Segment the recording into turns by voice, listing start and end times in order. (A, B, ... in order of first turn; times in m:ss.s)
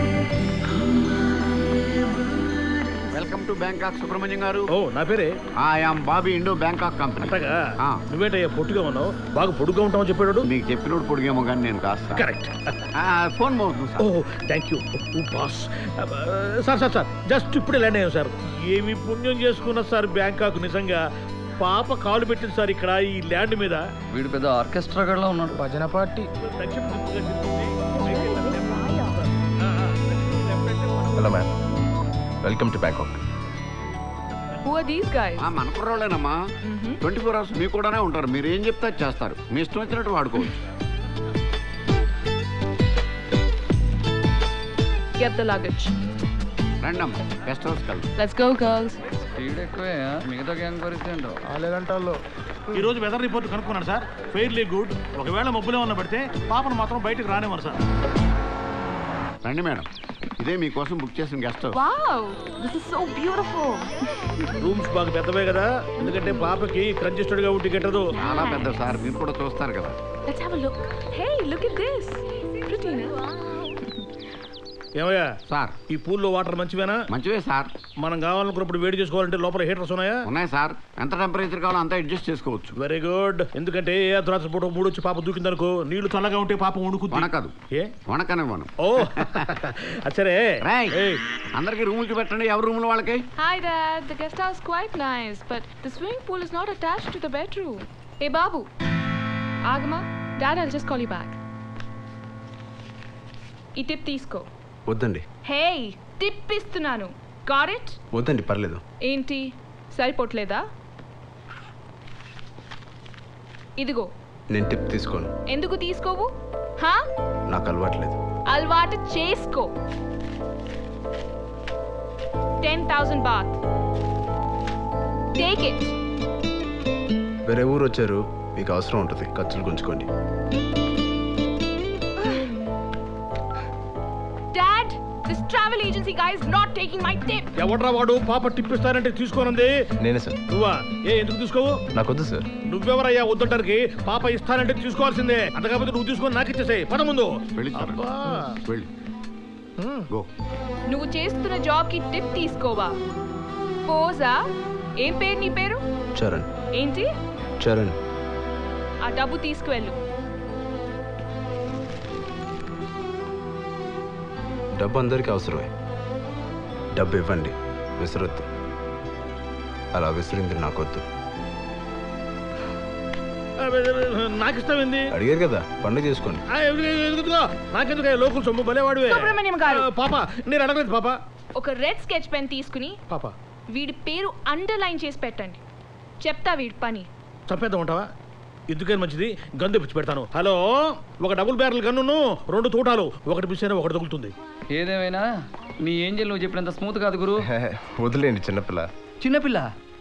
0:03.1-0:04.7 A
0:04.7-0:05.3 B
0:05.6-0:08.0 A
0:07.2-0:10.5 B
0:10.4-0:12.2 A
0:12.2-0:12.8 B
0:13.0-0:14.1 A
0:14.0-0:21.0 B
0:21.6-0:23.8 B
0:24.1-0:25.6 C
0:25.5-0:26.3 D
0:26.4-0:31.3 B
0:28.0-0:29.2 E
0:31.2-0:31.5 D
0:32.4-0:33.1 D
0:34.6-0:35.5 E
0:35.4-0:36.4 A
0:36.6-0:37.0 E
0:37.0-0:40.6 A
0:45.2-0:45.9 E
0:46.8-0:48.1 A
0:48.2-0:49.0 E
0:49.4-0:51.4 C
0:51.5-0:52.2 D
0:52.7-0:57.8 B
0:59.4-1:01.8 A
1:01.7-1:04.5 E
1:04.6-1:08.2 B
1:08.1-1:08.8 E
1:08.2-1:10.0 A
1:10.3-1:14.0 E
1:15.0-1:15.3 B
1:15.5-1:15.8 A
1:15.9-1:17.0 B
1:17.1-1:17.7 A
1:18.0-1:20.3 B
1:20.3-1:22.7 A
1:22.8-1:27.9 B
1:27.1-1:27.5 A
1:28.1-1:29.4 A
1:28.8-1:31.2 B
1:30.6-1:31.0 A
1:31.6-1:33.3 A
1:33.4-1:38.7 E
1:39.7-1:41.4 E
1:43.8-1:44.4 E
1:44.9-1:45.2 D
1:45.5-1:48.0 E
1:48.1-1:48.8 D
1:49.1-1:49.4 E
1:50.0-1:50.6 E
1:53.8-1:54.1 E
1:54.5-1:55.3 D
1:55.5-1:57.0 E
1:57.5-1:58.2 D
1:58.5-1:59.7 E
2:02.6-2:03.6 E
2:05.4-2:06.0 E
2:07.5-2:10.1 D
2:12.2-2:12.5 E
2:14.5-2:17.5 E
2:17.6-2:19.8 B
2:20.0-2:20.4 D
2:20.5-2:21.8 B
2:22.0-2:22.5 D
2:22.7-2:28.6 B
2:27.5-2:28.1 A
2:29.8-2:30.0 B
2:30.9-2:32.9 E
2:33.9-2:34.4 E
2:35.0-2:35.8 E
2:36.2-2:36.5 D
2:36.8-2:37.1 E
2:37.6-2:38.0 D
2:39.0-2:40.0 E
2:44.8-2:45.7 D
2:47.0-2:48.4 D
2:49.9-2:51.0 D
2:53.6-2:55.1 B
2:55.1-2:56.4 D
2:56.5-3:01.2 B
2:59.1-2:59.8 E
3:01.6-3:03.0 E
3:03.7-3:05.6 E
3:06.2-3:07.1 E
3:07.5-3:08.1 B
3:08.7-3:14.3 B
3:14.7-3:15.2 C
3:15.8-3:17.5 C
3:17.4-3:18.9 D
3:19.2-3:19.7 C